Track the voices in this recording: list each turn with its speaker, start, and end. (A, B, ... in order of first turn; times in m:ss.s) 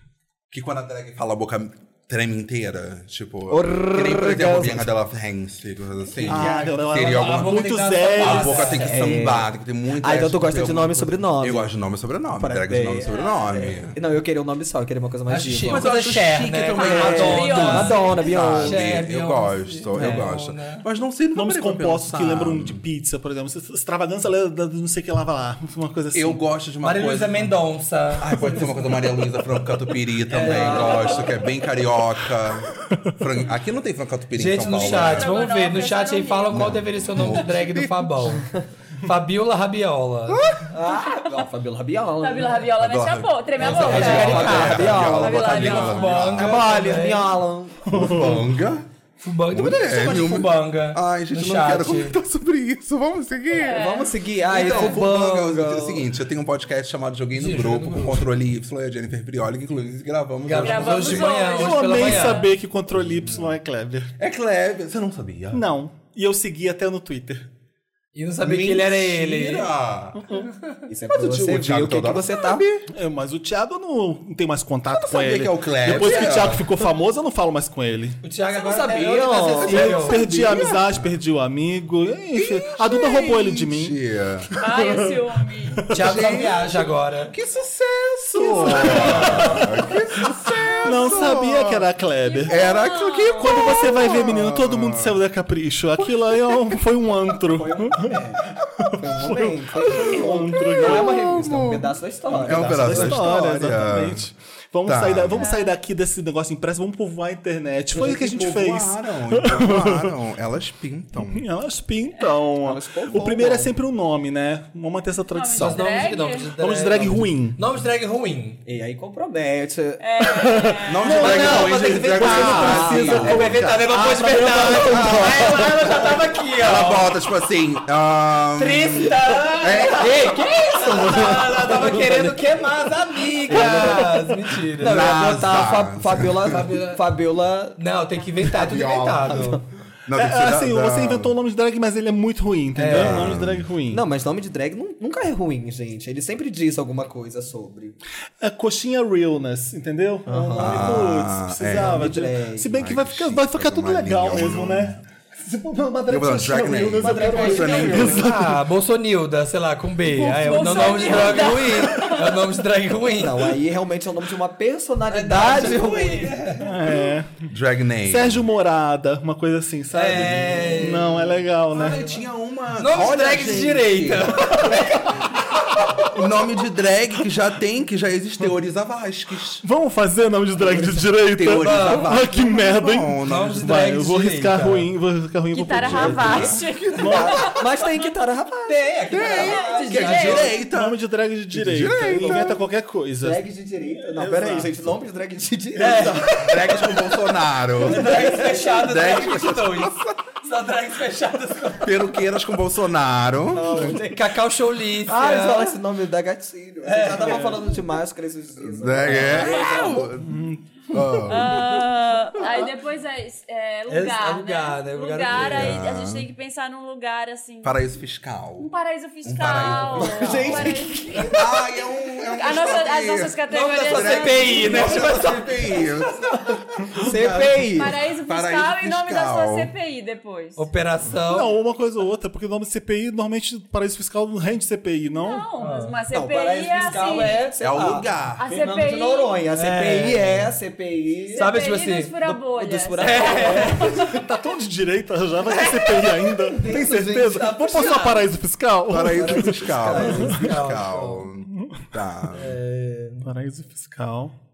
0:00.5-0:14.0 A
0:03.5-0:04.9 B
0:06.1-0:09.0 C
0:06.2-0:08.8 D
0:08.7-0:11.8 B
0:12.3-0:15.9 B
0:13.1-0:13.7 E
0:15.3-0:20.8 C
0:15.7-0:22.8 A
0:16.8-0:18.3 E
0:16.8-0:18.8 B
0:19.9-0:20.3 B
0:21.3-0:26.4 D
0:26.1-0:27.6 A
0:26.8-0:29.1 C
0:28.2-0:35.5 A
0:30.3-0:31.4 C
0:30.4-0:31.3 B
0:34.3-0:38.5 C
0:34.6-0:36.7 E
0:36.5-0:38.4 A
0:39.0-0:40.5 C
0:40.3-0:40.7 A
0:40.7-0:42.7 B
0:42.2-0:46.4 E
0:42.8-0:46.6 A
0:43.6-0:47.3 C
0:43.7-0:48.2 B
0:47.9-0:48.4 D
0:47.9-0:48.9 A
0:49.2-0:52.2 C
0:49.5-0:53.8 A
0:53.5-0:54.9 E
0:53.7-0:56.0 B
0:54.5-1:01.5 A
0:57.3-0:58.2 C
1:00.4-1:02.5 C
1:00.5-1:02.5 E
1:01.5-1:04.1 D
1:02.9-1:03.5 A
1:04.2-1:05.7 A
1:05.5-1:07.5 D
1:08.1-1:09.7 C
1:08.4-1:10.2 A
1:10.2-1:10.5 D
1:10.5-1:10.8 C
1:10.9-1:12.6 B
1:11.1-1:12.9 A
1:12.9-1:18.2 D
1:14.9-1:16.7 A
1:15.8-1:16.7 C
1:18.2-1:20.2 C
1:18.5-1:19.9 B
1:19.3-1:21.0 A
1:19.6-1:24.0 D
1:22.3-1:24.5 A
1:24.5-1:26.2 D
1:24.6-1:25.9 E
1:25.9-1:27.3 C
1:25.9-1:31.9 A
1:28.4-1:30.2 D
1:28.8-1:29.6 C
1:30.8-1:32.6 D
1:32.2-1:34.2 E
1:32.4-1:35.2 A
1:33.4-1:41.4 D
1:36.0-1:36.8 A
1:37.4-1:43.3 B
1:40.6-1:44.2 A
1:42.3-1:50.1 D
1:44.8-1:45.5 A
1:45.4-1:45.7 E
1:47.9-1:51.4 A
1:51.3-1:55.9 D
1:52.6-1:53.7 B
1:55.3-1:56.5 E
1:55.6-1:58.6 C
1:56.6-1:57.6 D
1:58.6-2:00.5 B
2:00.0-2:01.3 E
2:00.4-2:03.9 D
2:00.8-2:03.6 A
2:01.1-2:07.1 C
2:02.2-2:06.1 B
2:04.8-2:05.9 A
2:06.6-2:10.2 A
2:08.5-2:15.2 C
2:09.6-2:12.4 B
2:13.5-2:17.8 B
2:14.8-2:16.7 A
2:16.4-2:17.0 C
2:17.8-2:19.6 C
2:18.5-2:19.5 A
2:19.0-2:19.6 B
2:20.0-2:21.3 A
2:20.1-2:24.0 D
2:22.7-2:23.4 C
2:22.9-2:23.7 A
2:23.9-2:28.0 B
2:28.4-2:38.6 D
2:30.2-2:31.1 B
2:30.6-2:35.0 A
2:31.7-2:32.8 B
2:36.1-2:38.2 A
2:37.0-2:38.2 B
2:37.5-2:43.5 C
2:40.1-2:42.4 E
2:43.1-2:46.3 B
2:45.1-2:47.0 C
2:46.6-2:47.4 D
2:47.4-2:48.5 A
2:48.0-2:52.0 D
2:49.9-2:52.2 C
2:51.7-2:55.0 A
2:52.7-2:55.6 C
2:56.0-2:59.6 A
2:59.6-3:07.4 D
3:00.6-3:03.8 A
3:01.5-3:02.1 C
3:03.2-3:04.9 C
3:05.5-3:07.6 E
3:05.8-3:07.1 A
3:07.0-3:08.8 B
3:08.6-3:10.5 C
3:09.1-3:11.0 A
3:09.2-3:10.6 E
3:10.6-3:13.4 D
3:11.5-3:12.6 A
3:13.2-3:16.4 B
3:14.0-3:14.8 D
3:15.8-3:17.2 C
3:16.4-3:20.2 A
3:17.8-3:22.2 C
3:17.8-3:18.8 B
3:21.8-3:24.0 A
3:23.5-3:24.3 B
3:24.1-3:25.8 C
3:25.0-3:30.1 B
3:26.8-3:27.7 C
3:28.6-3:31.8 A
3:29.1-3:29.4 C
3:30.2-3:31.2 D
3:31.3-3:37.8 E
3:33.9-3:35.8 C
3:35.3-3:36.3 A
3:37.6-3:38.7 A
3:38.6-3:41.6 E
3:39.2-3:49.7 A
3:39.8-3:41.4 B
3:42.3-3:45.1 E
3:43.5-3:45.8 C
3:44.7-3:45.1 B
3:46.9-3:47.9 B
3:47.7-3:50.6 E
3:50.6-3:51.5 C
3:51.3-3:55.5 D
3:55.1-3:57.4 E
3:55.6-3:56.0 C
3:56.1-4:01.6 B
3:57.6-3:58.5 A
3:58.4-3:59.4 E
3:59.6-4:00.5 C
4:01.3-4:04.3 E
4:01.4-4:02.1 C
4:02.2-4:04.1 B
4:03.0-4:03.9 C
4:04.1-4:10.3 D
4:05.5-4:06.3 C
4:06.4-4:08.2 B
4:07.7-4:08.0 C
4:08.9-4:12.6 A
4:09.1-4:10.5 B
4:09.9-4:11.3 C
4:12.3-4:13.3 C
4:13.2-4:14.3 D